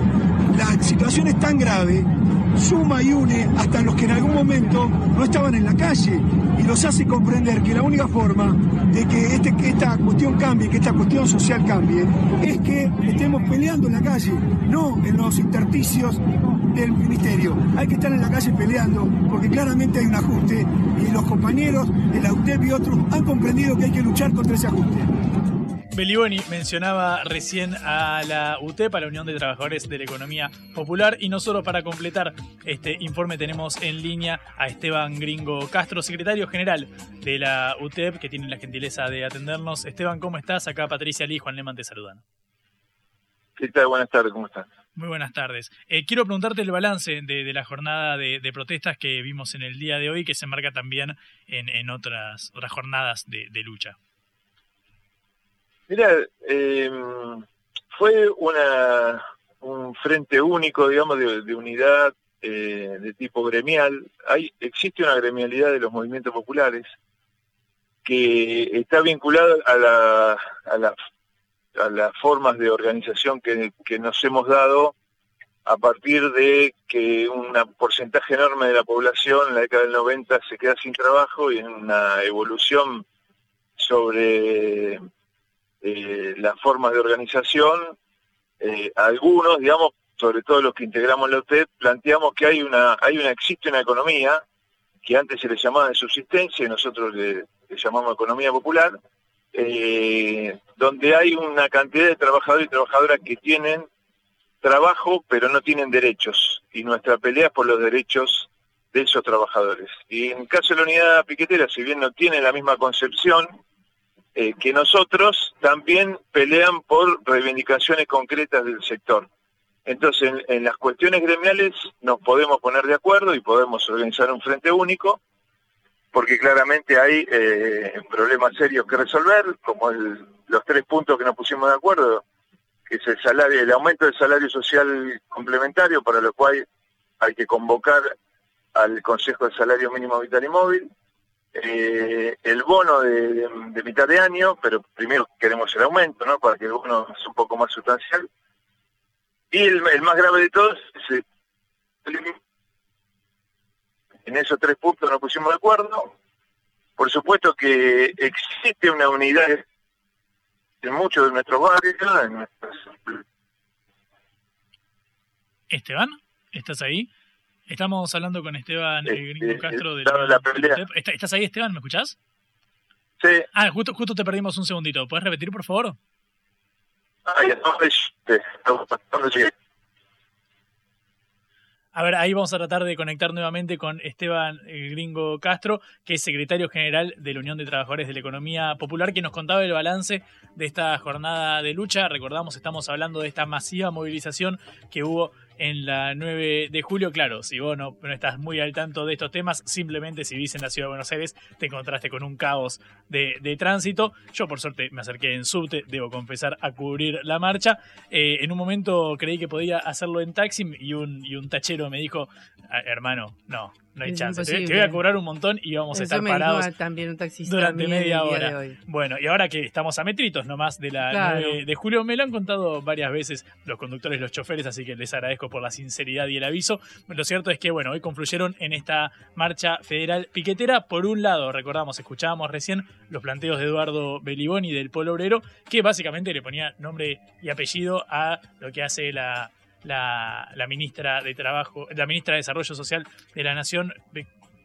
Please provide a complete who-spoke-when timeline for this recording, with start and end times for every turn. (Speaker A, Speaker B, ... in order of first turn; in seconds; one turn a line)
Speaker A: 0.5-25.1
Speaker B: 25.9-42.2
Speaker C: 43.6-44.7
Speaker B: 45.0-54.0
Speaker C: 55.9-66.8
Speaker C: 68.0-70.9
Speaker C: 71.8-74.9
Speaker C: 75.7-83.0
Speaker C: 83.8-85.0
Speaker C: 85.8-87.9
Speaker C: 88.6-94.4
Speaker C: 95.0-99.0
Speaker C: 99.5-103.9
Speaker C: 104.6-113.5
Speaker C: 114.3-119.3
Speaker C: 119.9-125.2
Speaker C: 126.1-132.2
Speaker C: 132.9-136.6
Speaker C: 137.2-138.1
Speaker C: 138.7-140.9
Speaker C: 141.5-148.3
Speaker C: 149.5-151.2
Speaker C: 152.1-152.3
Speaker C: 154.2-156.1
Speaker C: 157.0-159.6
Speaker C: 160.8-163.2
Speaker B: 165.7-167.1
Speaker B: 167.7-172.1
Speaker C: 169.1-170.8
Speaker B: 173.5-176.0
Speaker C: 177.2-179.5
Speaker B: 181.9-216.7
Speaker D: 214.1-215.0
Speaker D: 215.9-218.8
Speaker B: 217.4-244.3
Speaker D: 221.1-221.6